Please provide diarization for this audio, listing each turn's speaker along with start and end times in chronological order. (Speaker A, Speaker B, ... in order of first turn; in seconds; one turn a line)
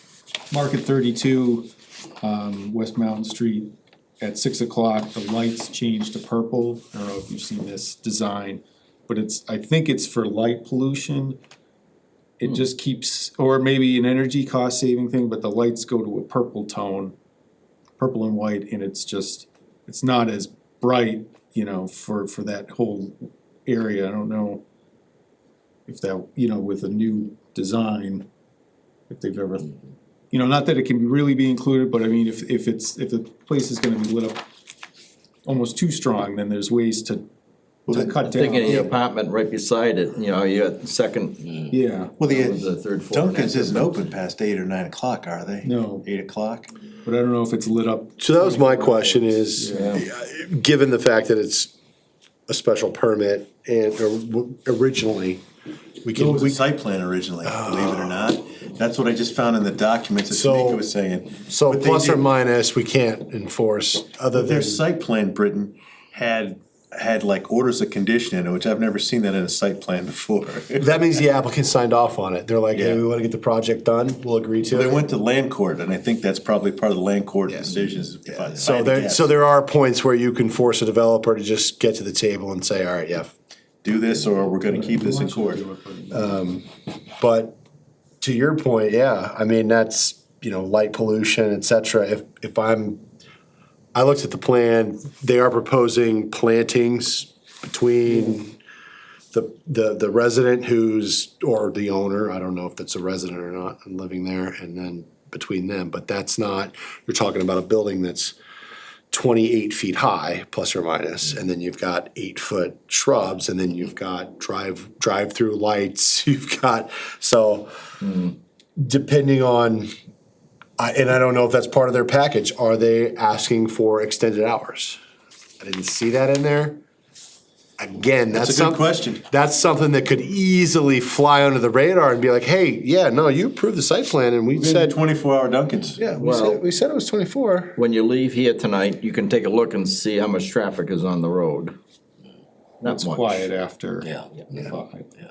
Speaker A: 0.5-1.7
Speaker A: 2.2-11.4
Speaker A: 12.4-17.1
Speaker A: 18.0-24.6
Speaker A: 25.9-28.3
Speaker A: 29.1-29.7
Speaker A: 30.3-34.4
Speaker A: 35.5-37.3
Speaker B: 37.9-38.2
Speaker A: 37.9-39.0
Speaker C: 38.2-41.7
Speaker A: 41.7-42.1
Speaker B: 42.2-46.7
Speaker C: 42.2-44.0
Speaker A: 45.6-46.1
Speaker A: 47.0-50.0
Speaker D: 48.2-51.7
Speaker C: 49.7-50.1
Speaker D: 52.5-55.4
Speaker D: 56.0-56.6
Speaker B: 56.2-62.3
Speaker D: 57.4-58.3
Speaker D: 60.3-60.9
Speaker D: 61.4-64.8
Speaker B: 64.3-71.0
Speaker D: 70.8-75.1
Speaker B: 72.7-73.0
Speaker B: 74.7-79.3
Speaker D: 78.5-83.3
Speaker B: 83.8-85.6
Speaker A: 84.6-86.4
Speaker D: 86.1-87.6
Speaker D: 88.2-93.0
Speaker D: 94.0-98.6
Speaker D: 99.3-108.3
Speaker D: 109.1-117.7
Speaker D: 118.8-119.9
Speaker D: 120.8-125.0
Speaker D: 125.6-126.8
Speaker D: 127.8-135.0
Speaker B: 128.3-129.2
Speaker B: 134.6-136.1
Speaker D: 136.0-137.8
Speaker C: 136.1-136.6
Speaker C: 137.8-141.8
Speaker A: 142.8-145.1
Speaker C: 142.8-143.4